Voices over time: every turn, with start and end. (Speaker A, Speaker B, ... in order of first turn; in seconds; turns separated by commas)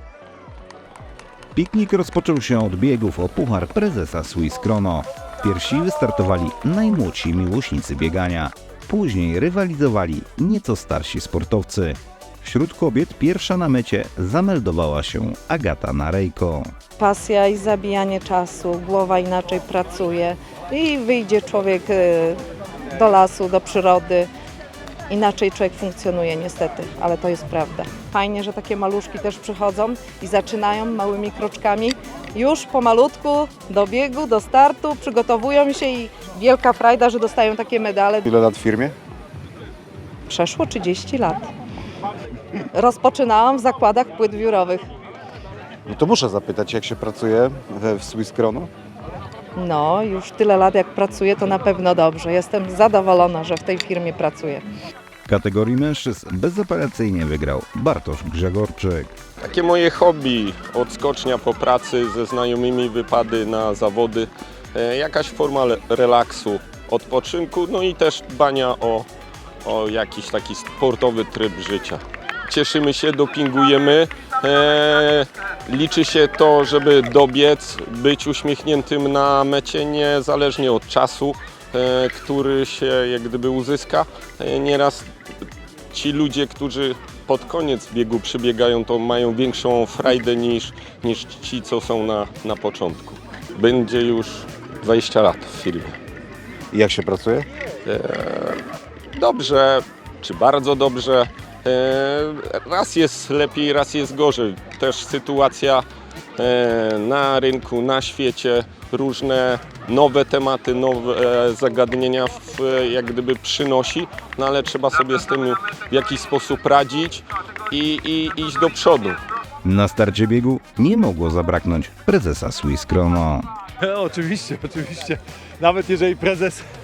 Speaker A: 1.6-16.7, Speaker B: 17.0-22.4, Speaker B: 22.9-24.3, Speaker B: 25.1-38.3, Speaker C: 38.3-38.9, Speaker B: 40.3-41.5, Speaker B: 42.7-44.8, Speaker C: 45.9-48.7, Speaker B: 49.5-54.6, Speaker A: 55.3-59.1, Speaker D: 59.4-69.1, Speaker D: 69.6-85.1, Speaker D: 85.9-96.0, Speaker C: 96.7-97.4, Speaker D: 97.8-98.6, Speaker D: 99.1-105.8, Speaker D: 106.4-119.2, Speaker A: 119.6-123.5, Speaker E: 123.8-126.6